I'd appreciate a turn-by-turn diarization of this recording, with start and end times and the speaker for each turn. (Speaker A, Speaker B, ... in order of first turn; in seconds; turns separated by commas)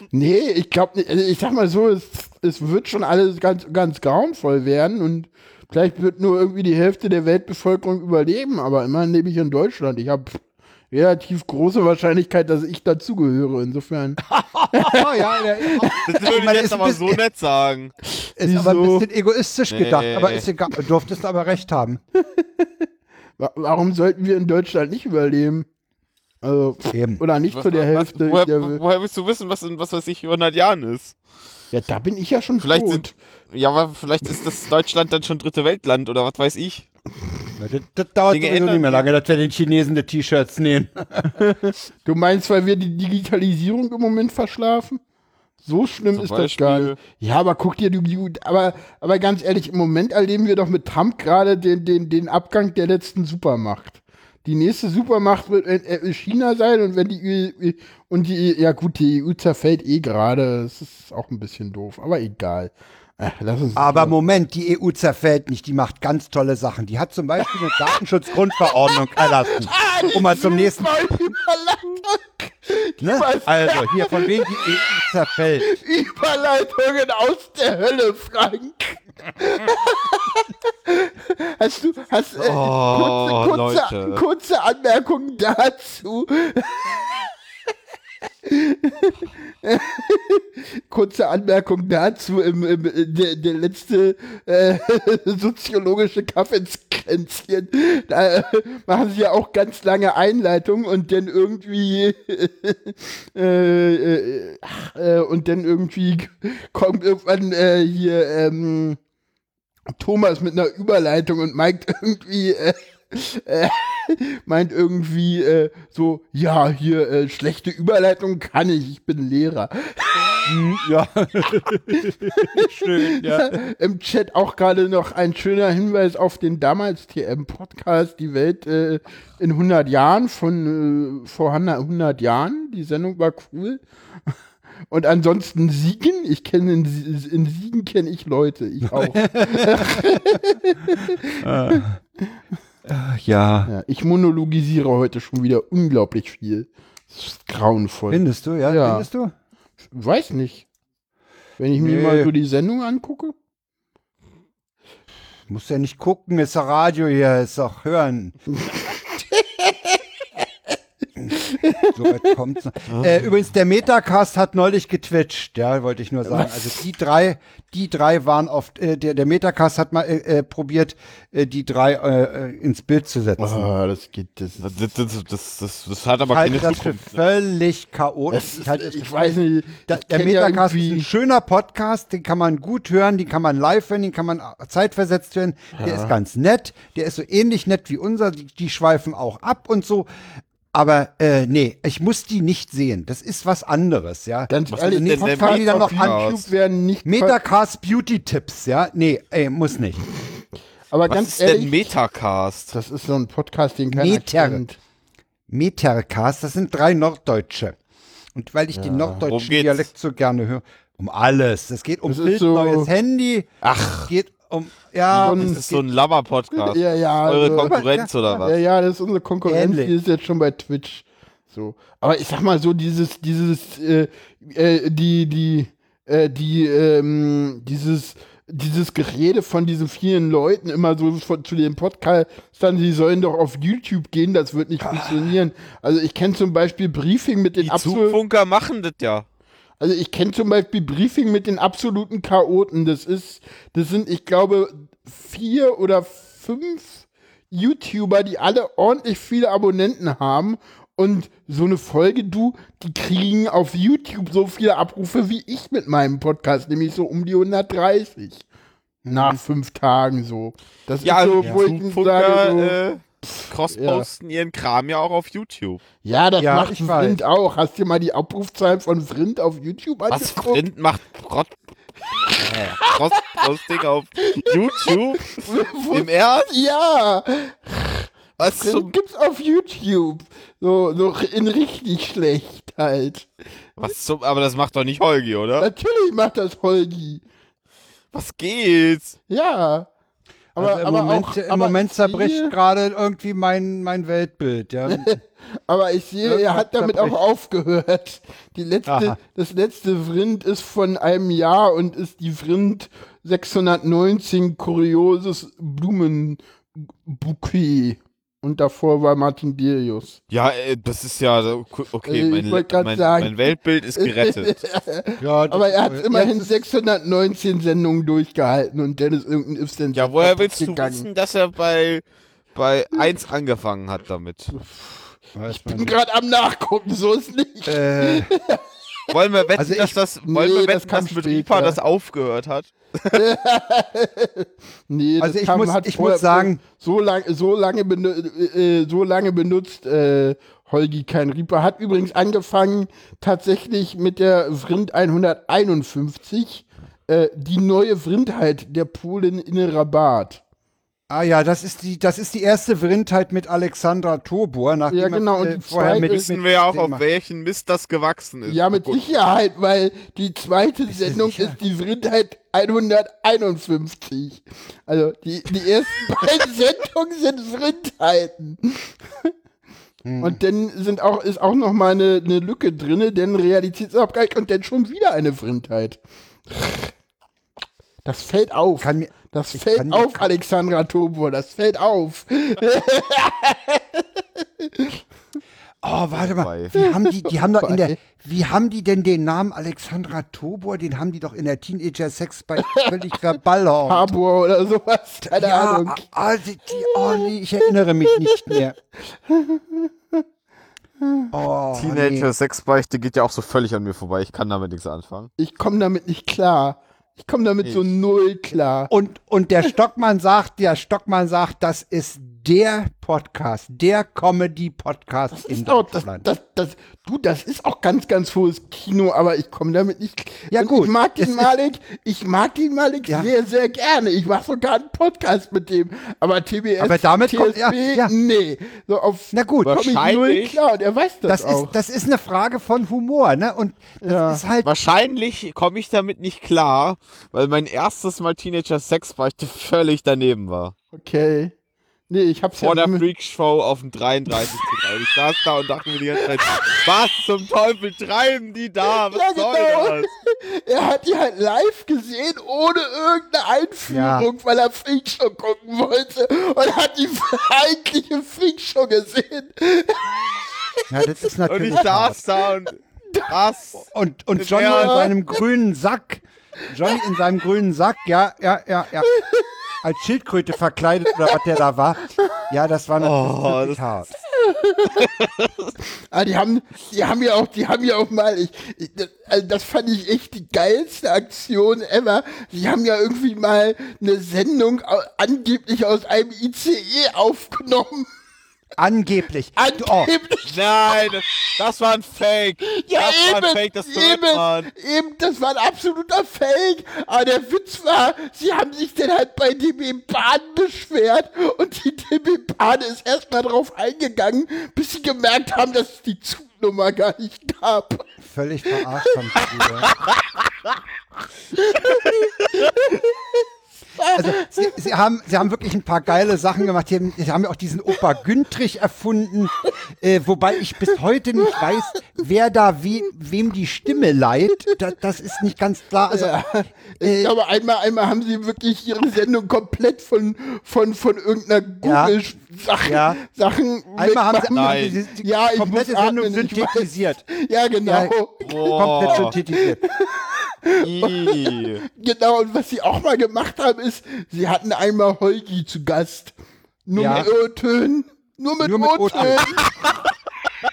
Speaker A: 0.1-14.2, Speaker B: 14.2-17.2, Speaker A: 14.7-16.1, Speaker C: 15.9-17.9, Speaker A: 18.2-19.1, Speaker B: 18.4-22.0, Speaker C: 19.7-20.5, Speaker A: 22.2-22.9, Speaker A: 23.4-25.7, Speaker A: 26.4-28.8, Speaker B: 26.9-27.2, Speaker C: 27.5-31.1, Speaker A: 31.7-33.1, Speaker C: 32.6-36.9, Speaker B: 37.6-41.4, Speaker C: 38.3-39.1, Speaker A: 41.3-45.0, Speaker A: 45.6-64.2, Speaker C: 46.1-47.0, Speaker B: 63.8-71.0, Speaker A: 68.6-74.8, Speaker B: 73.0-75.7, Speaker A: 75.6-87.1, Speaker C: 82.4-84.2, Speaker A: 88.4-109.0, Speaker A: 110.0-120.5, Speaker B: 120.5-123.6, Speaker A: 121.9-133.8, Speaker A: 134.9-142.3, Speaker B: 138.9-140.4, Speaker B: 141.4-142.0, Speaker B: 142.9-143.7, Speaker A: 143.7-149.1, Speaker B: 148.1-149.3, Speaker A: 149.9-150.7, Speaker A: 151.6-153.3, Speaker B: 151.8-152.3, Speaker B: 155.5-158.4, Speaker A: 158.5-160.4, Speaker A: 161.3-162.3, Speaker B: 161.9-173.7, Speaker C: 162.9-163.2, Speaker A: 166.3-166.8, Speaker A: 173.4-174.8, Speaker C: 174.6-177.2, Speaker B: 176.3-179.3, Speaker A: 178.3-181.1, Speaker B: 179.9-190.1, Speaker A: 185.8-186.1, Speaker B: 190.7-196.3, Speaker A: 194.5-197.4, Speaker C: 194.7-196.5, Speaker B: 197.1-200.0, Speaker A: 200.9-201.9, Speaker C: 201.1-202.7, Speaker A: 202.7-204.8, Speaker B: 203.9-204.6, Speaker B: 205.5-207.8, Speaker B: 208.3-215.8, Speaker A: 208.7-209.2, Speaker C: 209.3-209.9, Speaker A: 212.1-212.9, Speaker C: 215.1-218.6, Speaker A: 215.1-215.6, Speaker A: 216.6-217.8, Speaker B: 217.6-218.1, Speaker A: 218.3-238.2, Speaker B: 219.5-219.9, Speaker B: 234.8-235.3, Speaker C: 237.6-239.3, Speaker A: 239.8-258.4, Speaker B: 259.1-259.4, Speaker A: 259.1-264.1, Speaker C: 261.0-265.8, Speaker A: 266.0-270.6, Speaker B: 266.4-267.2, Speaker C: 270.1-271.5, Speaker C: 272.3-276.5, Speaker A: 272.4-273.4, Speaker A: 274.2-283.3, Speaker C: 278.4-278.9, Speaker C: 283.8-285.7, Speaker A: 285.6-287.2, Speaker C: 288.1-289.2, Speaker A: 289.3-289.9, Speaker B: 290.6-295.2, Speaker A: 290.6-292.5, Speaker A: 294.9-310.2, Speaker B: 296.2-297.2, Speaker B: 298.9-299.2, Speaker C: 310.3-314.6, Speaker A: 312.1-321.1, Speaker B: 315.2-316.6, Speaker C: 319.9-322.0, Speaker C: 322.6-324.5, Speaker A: 324.5-328.6, Speaker B: 325.4-325.9, Speaker B: 327.7-328.3, Speaker C: 329.1-333.2, Speaker B: 329.6-329.9, Speaker A: 330.2-331.8, Speaker A: 333.1-350.4, Speaker B: 335.2-336.6, Speaker B: 351.1-357.0, Speaker A: 354.9-356.3, Speaker C: 355.9-359.0, Speaker A: 358.5-369.3, Speaker B: 360.9-361.6, Speaker B: 370.1-370.4, Speaker A: 370.2-376.9, Speaker A: 378.1-385.0, Speaker B: 378.8-380.3, Speaker B: 385.8-394.1, Speaker C: 386.1-386.8, Speaker A: 386.8-388.0, Speaker A: 392.6-392.9, Speaker A: 393.9-396.0, Speaker B: 395.4-398.8, Speaker A: 396.8-397.3, Speaker A: 398.1-398.6, Speaker A: 399.1-400.2, Speaker A: 401.0-401.3, Speaker B: 401.3-402.3, Speaker C: 401.7-405.3, Speaker A: 405.4-408.9, Speaker B: 408.9-416.2, Speaker A: 415.3-431.7, Speaker B: 420.5-421.5, Speaker B: 426.8-428.1, Speaker B: 429.3-429.9, Speaker C: 429.7-430.6, Speaker B: 431.3-434.7, Speaker A: 434.0-434.4, Speaker C: 434.6-440.7, Speaker A: 440.9-441.6, Speaker A: 442.1-443.0, Speaker C: 442.6-450.1, Speaker A: 448.9-460.3, Speaker B: 453.9-454.3, Speaker B: 460.9-462.2, Speaker C: 461.5-465.1, Speaker B: 463.9-469.1, Speaker A: 464.7-465.1, Speaker A: 469.1-469.5, Speaker B: 469.8-474.1, Speaker C: 473.0-473.8, Speaker A: 474.3-475.1, Speaker C: 475.0-475.7, Speaker A: 476.1-488.1, Speaker B: 488.8-490.1, Speaker A: 489.6-490.6, Speaker C: 490.5-494.7, Speaker A: 492.7-508.1, Speaker B: 508.2-509.9, Speaker A: 508.8-509.1, Speaker A: 511.5-513.4, Speaker A: 514.0-514.7, Speaker B: 514.1-526.3, Speaker A: 526.1-546.4, Speaker B: 527.0-527.3, Speaker B: 531.8-532.2, Speaker B: 532.9-533.2, Speaker B: 534.0-537.2, Speaker C: 534.5-535.0, Speaker B: 537.9-538.1, Speaker C: 538.4-539.3, Speaker B: 538.7-539.8, Speaker C: 540.8-541.8, Speaker A: 546.9-549.6, Speaker B: 547.0-547.3, Speaker B: 548.6-549.5, Speaker C: 549.6-550.1